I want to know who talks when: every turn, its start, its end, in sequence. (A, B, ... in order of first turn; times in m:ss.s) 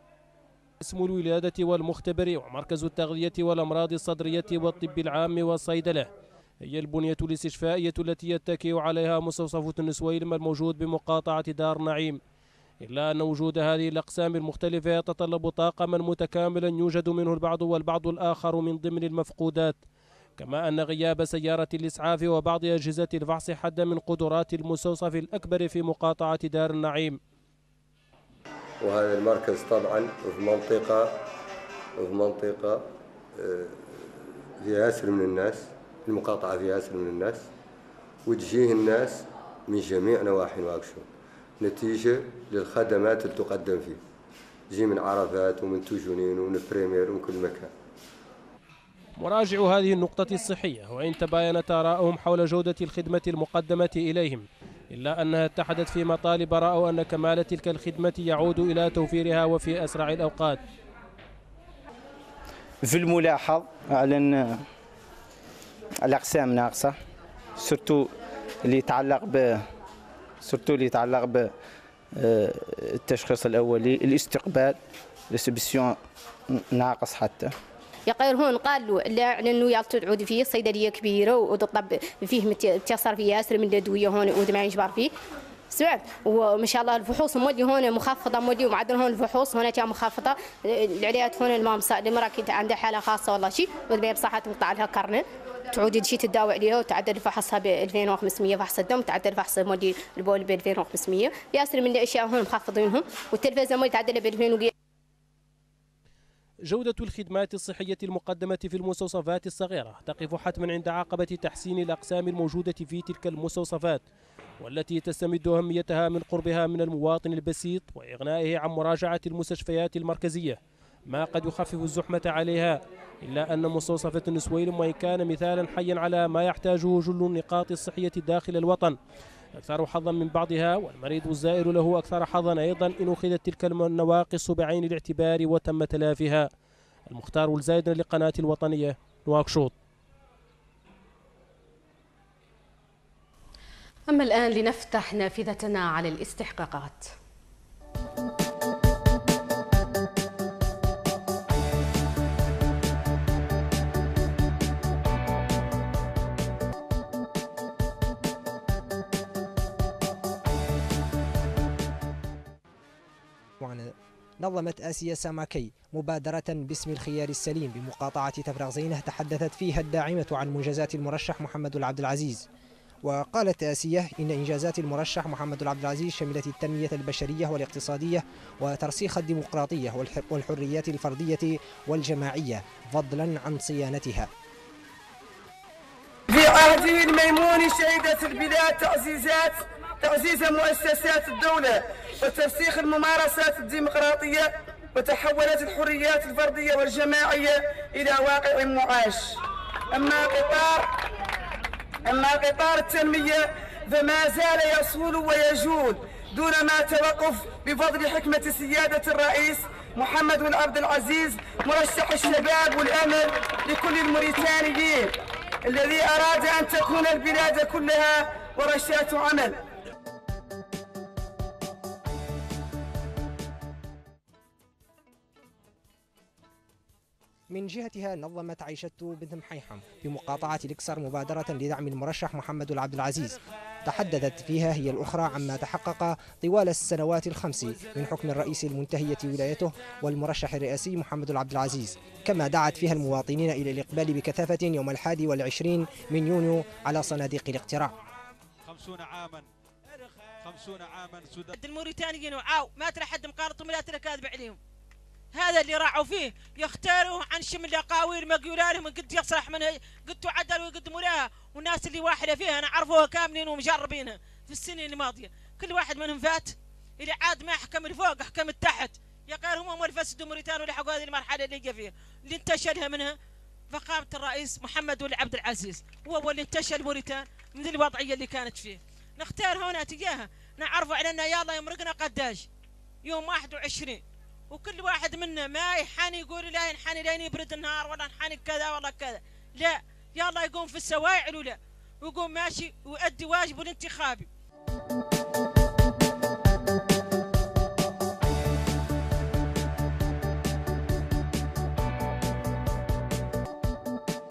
0:00.8-0:06.1 A
0:06.6-0:12.2 A
0:12.8-0:19.8 A
0:20.4-0:27.2 A
0:28.8-0:31.1 B
0:32.0-0:33.8 B
0:34.6-0:37.5 B
0:38.2-0:41.0 B
0:41.6-0:44.0 B
0:44.7-0:47.7 B
0:49.2-1:00.6 A
1:02.8-1:04.6 C
1:06.0-1:07.0 C
1:07.6-1:08.1 C
1:08.6-1:09.6 C
1:10.4-1:11.5 C
1:12.2-1:14.8 C
1:15.3-1:16.0 C
1:16.5-1:17.5 C
1:18.1-1:25.1 D
1:25.7-1:44.7 D
1:46.6-1:54.0 A
1:54.6-2:09.0 A
2:09.6-2:16.5 A
2:17.1-2:19.7 A
2:24.1-2:27.1 E
2:43.6-2:52.4 F
2:53.0-3:04.3 F
3:06.3-3:19.4 G
3:19.9-3:20.8 G
3:22.1-3:35.1 G
3:35.7-3:39.5 G
3:47.5-4:07.9 F
4:08.6-4:09.4 H
4:10.4-4:11.6 H
4:11.6-4:14.6 I
4:15.3-4:33.2 I
4:33.7-4:42.5 I
4:43.0-4:54.3 I